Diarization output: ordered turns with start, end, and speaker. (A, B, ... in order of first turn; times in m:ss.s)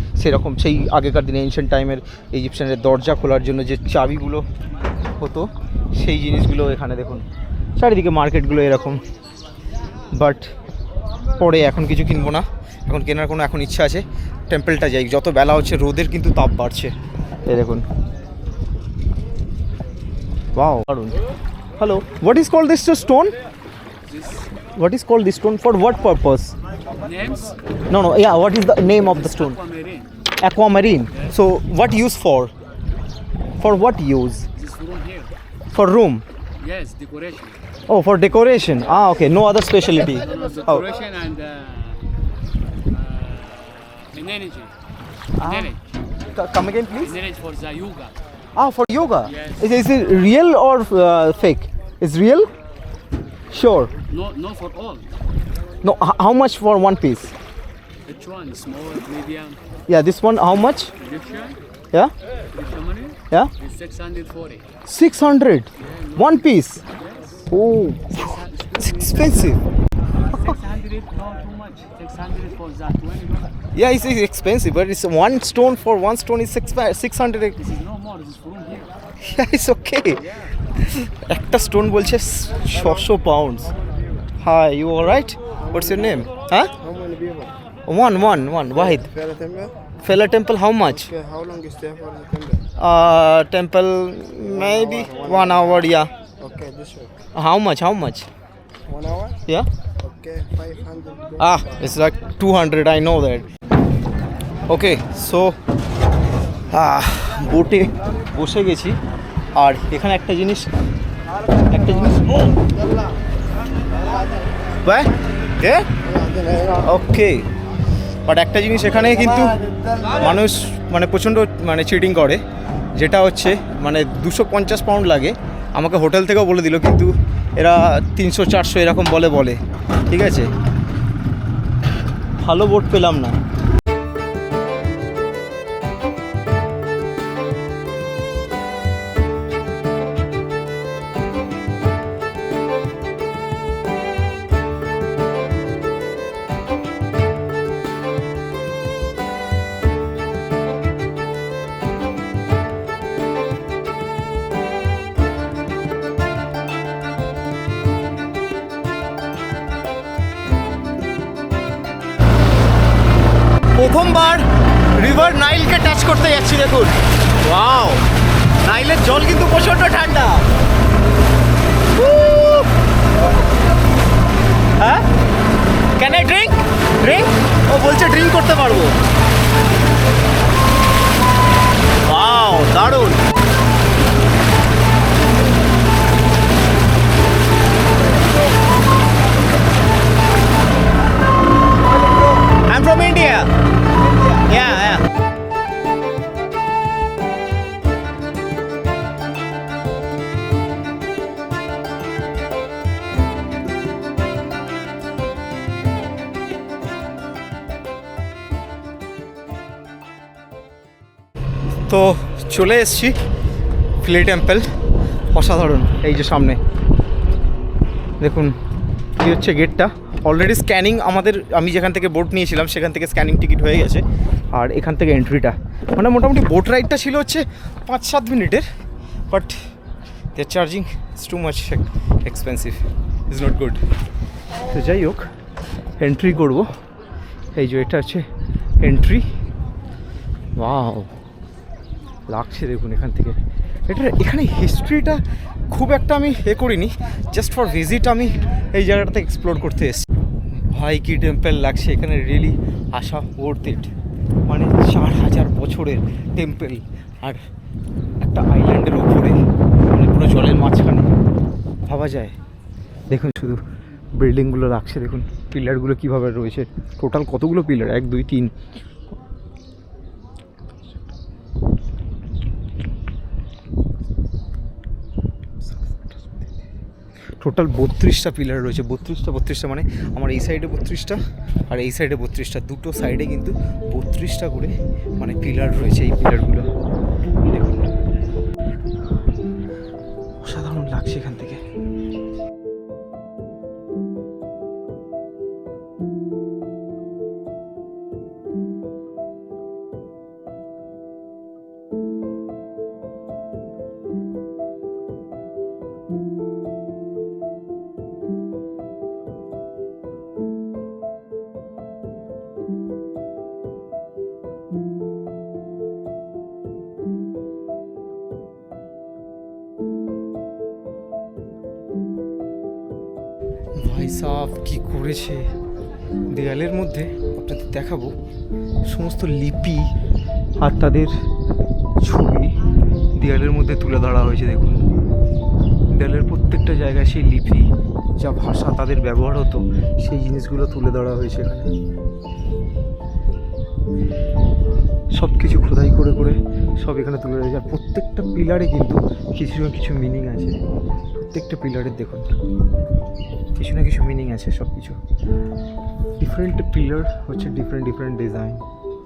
0:00.2-0:04.5 A
0:05.2-0:07.2 A
0:07.8-0:09.0 A
0:10.1-0:10.5 A
0:11.4-0:17.8 A
0:20.5-0:21.2 A
0:21.8-0:23.4 A
0:24.1-0:24.5 B
0:24.8-0:26.5 A
0:27.0-0:27.6 B
0:27.9-0:29.6 A
0:29.1-0:30.1 B
0:30.4-0:32.5 A
0:33.6-0:34.5 A
0:34.6-0:35.3 B
0:35.7-0:36.2 A
0:36.6-0:37.6 B
0:37.9-0:40.9 A
0:40.2-0:42.1 B
0:42.9-0:44.7 B
0:45.4-0:45.7 A
0:45.4-0:45.8 B
0:46.3-0:47.1 A
0:47.0-0:48.1 B
0:48.6-0:52.5 A
0:49.2-0:49.7 B
0:53.5-0:53.9 A
0:54.1-0:55.1 B
0:55.8-0:57.3 A
0:58.0-0:59.6 B
0:59.9-1:00.9 A
1:01.0-1:01.6 B
1:02.5-1:04.6 B
1:04.9-1:06.8 A
1:05.8-1:07.5 B
1:07.5-1:09.6 A
1:08.1-1:09.6 B
1:10.2-1:13.5 B
1:13.7-1:17.6 A
1:17.6-1:18.9 B
1:19.2-1:23.7 A
1:24.4-1:26.7 A
1:25.6-1:26.2 C
1:26.8-1:27.5 C
1:27.9-1:29.1 A
1:28.7-1:29.8 C
1:30.0-1:31.1 A
1:30.9-1:32.6 C
1:32.8-1:36.1 A
1:34.4-1:37.2 C
1:37.3-1:38.3 A
1:38.9-1:39.4 C
1:40.0-1:41.8 C
1:41.4-1:43.4 A
1:44.7-1:45.6 A
1:46.7-1:49.0 A
1:49.5-1:50.7 A
1:51.7-1:52.6 A
1:54.8-1:55.9 A
1:56.0-1:56.8 C
1:56.8-1:57.5 A
1:58.2-2:02.4 A
2:02.9-2:10.5 A
2:12.4-2:13.4 A
2:43.8-2:48.0 A
2:48.6-2:50.4 A
2:51.9-2:52.7 A
2:54.8-2:55.0 A
2:56.0-2:58.9 A
3:02.0-3:03.2 A
3:12.5-3:13.5 A
3:14.3-3:15.0 A
3:31.9-3:33.2 A
3:34.0-3:34.7 A
3:35.3-3:36.6 A
3:38.2-3:38.6 A
3:39.2-3:48.7 A
3:49.3-3:49.6 A
3:50.3-3:53.8 A
3:54.6-3:55.3 A
3:56.0-3:56.7 A
3:57.5-3:58.3 A
3:58.8-3:59.3 A
4:00.6-4:01.1 A
4:02.3-4:03.4 A
4:03.9-4:13.9 A
4:14.5-4:17.4 A
4:18.2-4:21.1 A
4:21.9-4:22.3 A
4:23.1-4:23.6 A
4:24.1-4:28.5 A
4:35.6-4:36.5 A
4:37.4-4:46.7 A
4:47.4-4:47.9 A
4:50.4-4:51.6 A
5:23.8-5:25.5 A
5:26.2-5:28.1 A
5:28.8-5:29.9 A
5:30.6-5:31.2 A
5:32.0-5:34.8 A
5:35.9-5:41.7 A
5:45.1-5:50.6 A
5:51.2-5:52.3 A
5:53.6-5:55.0 A
5:56.2-5:58.6 A